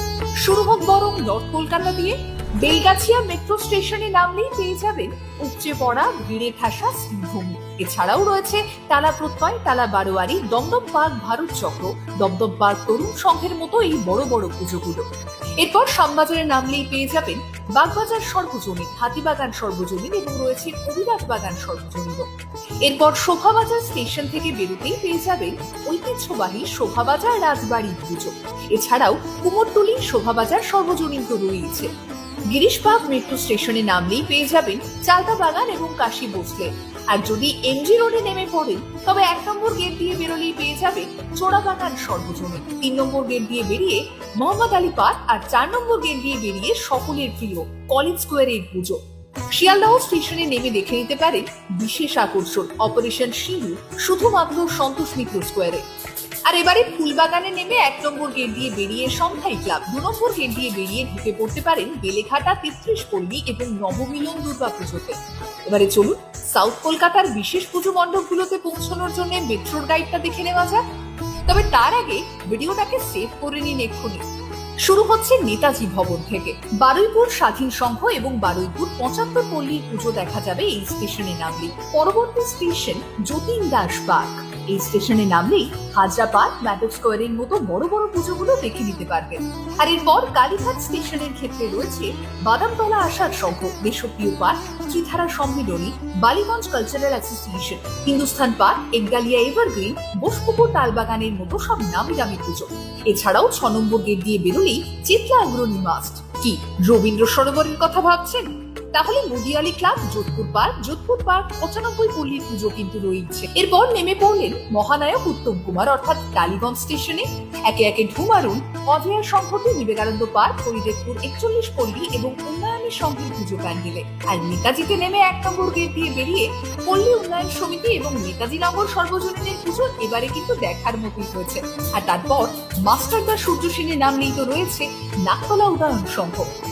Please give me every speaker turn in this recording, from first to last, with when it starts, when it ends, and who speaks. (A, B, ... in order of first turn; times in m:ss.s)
0:00.4-0:15.0 A
0:15.6-0:22.3 A
0:22.8-0:31.9 A
0:32.5-0:49.0 A
0:49.5-0:55.8 A
0:56.5-1:10.8 A
1:11.5-1:14.2 A
1:14.8-2:16.5 A